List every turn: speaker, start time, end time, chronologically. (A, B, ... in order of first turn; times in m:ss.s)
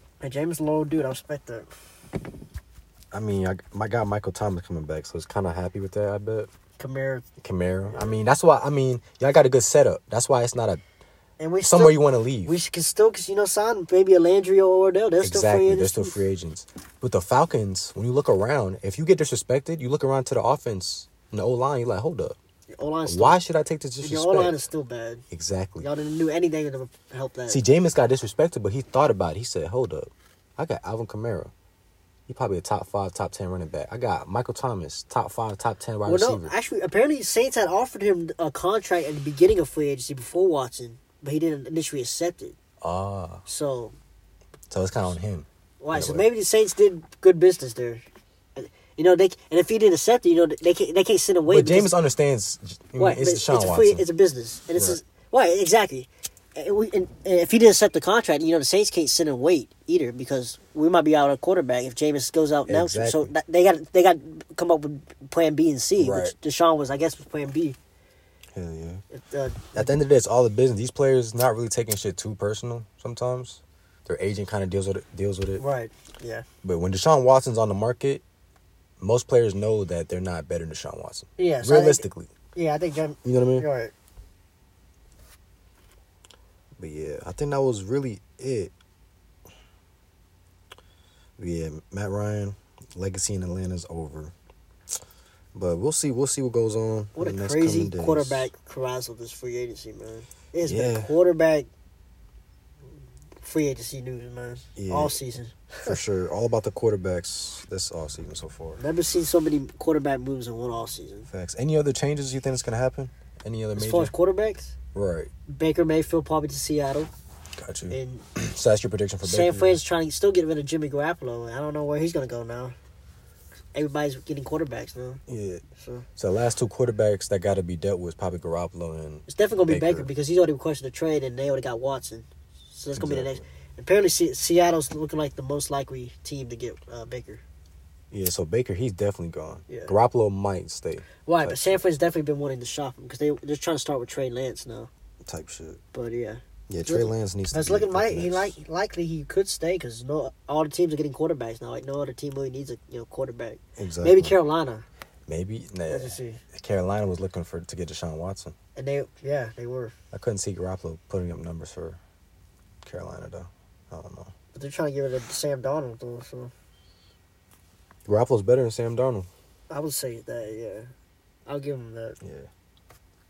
0:00.2-0:01.7 A
0:03.1-0:06.5 B
0:06.8-0:07.3 A
0:07.4-0:10.8 B
0:07.9-0:08.2 A
0:11.4-0:16.2 A
0:11.6-0:12.6 B
0:15.2-0:22.4 B
0:22.8-0:23.4 A
0:23.1-0:24.6 B
0:24.0-0:25.2 A
0:25.3-0:25.9 B
0:25.8-0:27.6 A
0:27.5-0:31.5 B
0:32.3-0:36.5 B
0:36.1-0:42.6 A
0:42.8-0:43.4 B
0:43.5-0:44.0 A
0:44.7-0:46.3 B
0:45.8-0:48.0 A
0:48.6-0:51.9 A
0:51.5-0:54.0 B
0:53.0-1:07.8 A
0:54.7-0:55.0 B
1:02.7-1:03.3 B
1:06.0-1:06.4 B
1:08.6-1:09.0 B
1:09.1-1:10.0 A
1:09.7-1:15.6 B
1:15.6-1:16.4 A
1:16.6-1:18.2 B
1:19.0-1:22.3 B
1:21.4-1:23.9 A
1:23.2-1:23.7 B
1:26.8-1:28.7 B
1:31.4-1:34.3 B
1:35.5-1:38.5 B
1:37.2-1:41.7 A
1:40.6-1:41.1 B
1:43.4-1:46.0 A
1:44.8-1:45.2 B
1:45.8-1:48.8 B
1:48.8-1:51.3 A
1:51.3-1:54.1 B
1:53.8-1:54.8 A
1:54.9-1:55.3 B
1:55.5-1:57.1 A
1:57.6-1:59.8 B
1:57.9-1:58.3 A
1:59.2-2:02.8 A
2:03.7-2:05.2 A
2:05.3-2:05.6 B
2:05.8-2:06.1 A
2:06.2-2:10.1 B
2:09.3-2:17.4 A
2:13.0-2:13.4 B
2:18.1-2:21.8 B
2:19.7-2:19.9 A
2:21.2-2:24.9 A
2:25.3-2:25.8 B
2:25.9-2:34.9 A
2:26.7-2:28.6 B
2:33.8-2:34.4 B
2:35.3-2:38.5 B
2:35.9-2:36.4 A
2:38.8-2:39.9 A
2:40.1-2:42.0 B
2:42.8-2:44.3 B
2:44.5-2:46.5 A
2:48.1-2:49.3 B
2:49.7-2:50.9 A
2:51.5-2:52.2 A
2:52.2-2:52.5 B